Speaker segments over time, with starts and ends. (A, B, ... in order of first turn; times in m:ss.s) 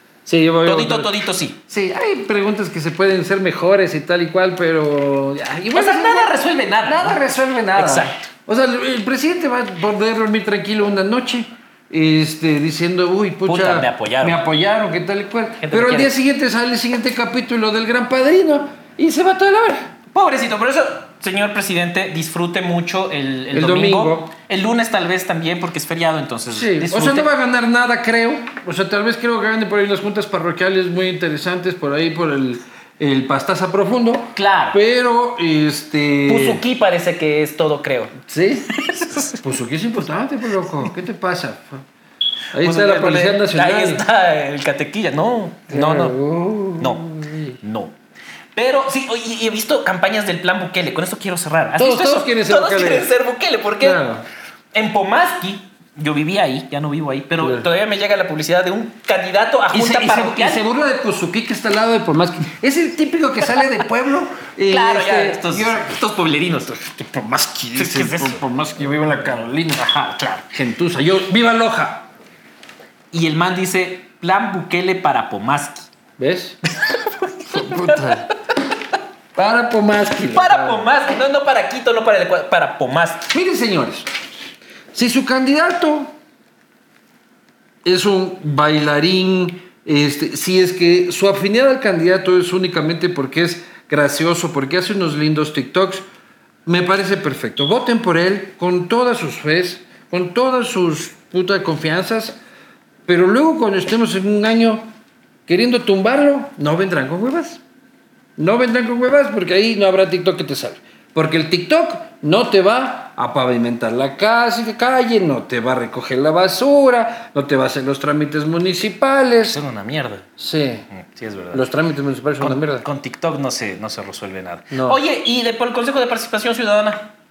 0:00.3-0:01.2 A
0:00.6-0:01.6 B
0:01.7-0:19.9 A
0:05.7-0:07.2 B
0:07.8-0:08.3 B
0:13.4-0:14.4 B
0:15.6-0:16.1 B
0:20.1-0:27.3 B
0:23.5-0:24.3 A
0:26.5-0:36.6 A
0:34.4-0:34.8 B
0:36.3-0:38.2 B
0:38.3-0:38.7 A
0:38.8-0:39.4 B
0:39.4-0:41.8 A
0:42.5-0:44.0 A
0:42.6-0:46.2 B
0:45.7-0:47.6 A
0:46.8-0:48.0 B
0:48.6-0:54.0 B
0:51.8-0:53.1 A
0:53.8-0:54.2 A
0:54.7-1:00.6 B
0:57.4-0:57.7 A
0:59.7-1:06.0 A
1:04.7-1:06.9 B
1:06.8-1:12.1 A
1:07.8-1:10.4 B
1:13.1-1:15.9 B
1:16.2-1:16.6 A
1:16.7-1:18.2 B
1:17.5-1:18.3 A
1:19.4-1:20.9 A
1:20.3-1:23.3 B
1:23.3-1:24.1 A
1:24.9-1:26.1 A
1:27.8-1:36.0 A
1:36.7-1:42.4 A
1:43.1-1:44.8 A
1:45.5-1:47.6 A
1:48.4-1:59.6 A
1:59.4-2:00.2 B
2:00.4-2:00.9 A
2:00.9-2:01.6 B
2:01.5-2:02.8 A
2:02.4-2:07.1 B
2:04.7-2:05.0 A